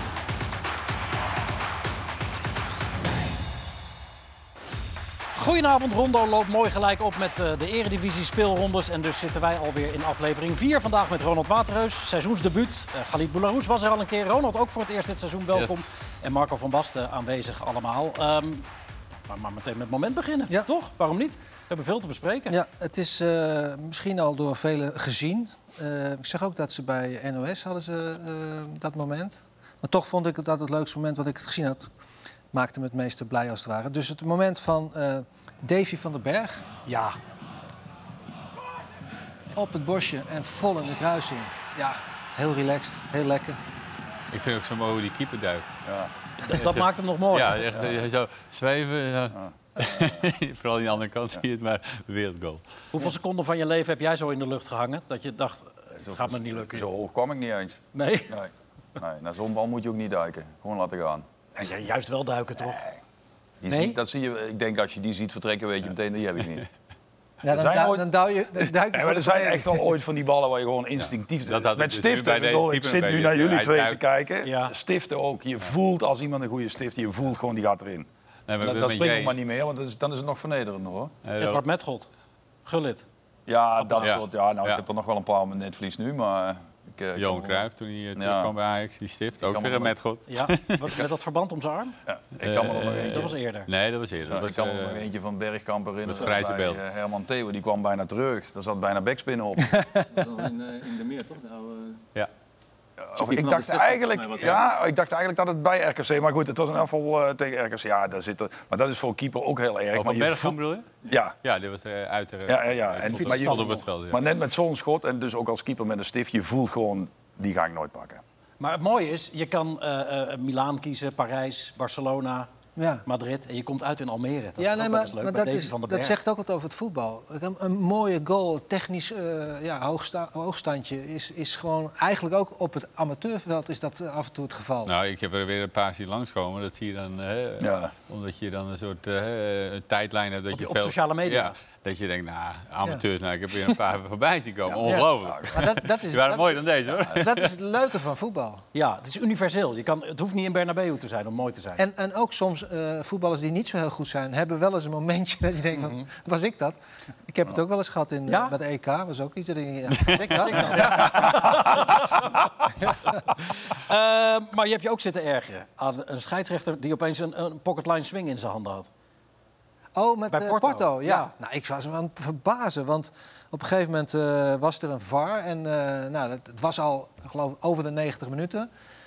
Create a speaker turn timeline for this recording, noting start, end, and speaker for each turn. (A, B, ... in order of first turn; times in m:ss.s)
0:05.3-0:18.7 A
0:15.5-0:15.8 B
0:19.3-0:22.5 A
0:22.5-0:31.9 C
0:32.5-0:36.6 C
0:36.8-0:37.1 A
0:39.5-0:43.6 C
0:44.3-0:45.8 B
0:45.8-0:46.1 D
0:46.4-0:47.6 A
0:46.5-0:52.6 B
0:49.4-0:50.2 D
0:52.9-0:56.9 A
0:56.0-1:01.2 D
0:57.9-0:58.4 A
1:01.6-1:02.8 A
1:03.6-1:06.6 D
1:03.7-1:04.0 A
1:07.4-1:09.8 C
1:07.5-1:18.1 D
1:11.4-1:14.0 B
1:14.4-1:14.7 A
1:18.5-1:19.4 B
1:18.6-1:21.1 D
1:21.2-1:21.6 B
1:21.4-1:22.1 A
1:22.6-1:23.0 A
1:23.5-1:27.6 D
1:24.0-1:24.8 B
1:27.2-1:30.7 B
1:28.2-1:28.5 D
1:29.4-1:29.9 D
1:30.3-1:32.0 A
1:32.0-1:33.3 D
1:32.4-1:35.0 B
1:33.1-1:33.7 A
1:34.3-1:39.8 D
1:36.0-1:36.8 B
1:40.1-1:42.0 E
1:43.0-1:50.6 D
1:43.2-1:44.6 E
1:49.9-1:50.9 B
1:51.1-1:51.4 D
1:51.4-1:54.2 B
1:52.5-1:58.2 D
1:53.1-1:53.9 A
1:58.6-2:02.5 A
2:02.8-2:03.0 C
2:03.0-2:06.1 A
2:04.6-2:14.9 C
2:14.8-2:27.5 B
2:17.6-2:17.9 D
2:20.5-2:21.5 A
2:24.6-2:25.6 D
2:24.8-2:28.6 C
2:26.9-2:27.2 D
2:28.7-2:31.8 A
2:31.8-2:41.8 C
2:35.8-2:36.1 A
2:38.3-2:38.5 A
2:40.2-2:42.3 A
2:42.8-2:43.2 C
2:43.7-2:48.9 A
2:50.0-2:58.7 C
2:50.3-2:51.3 A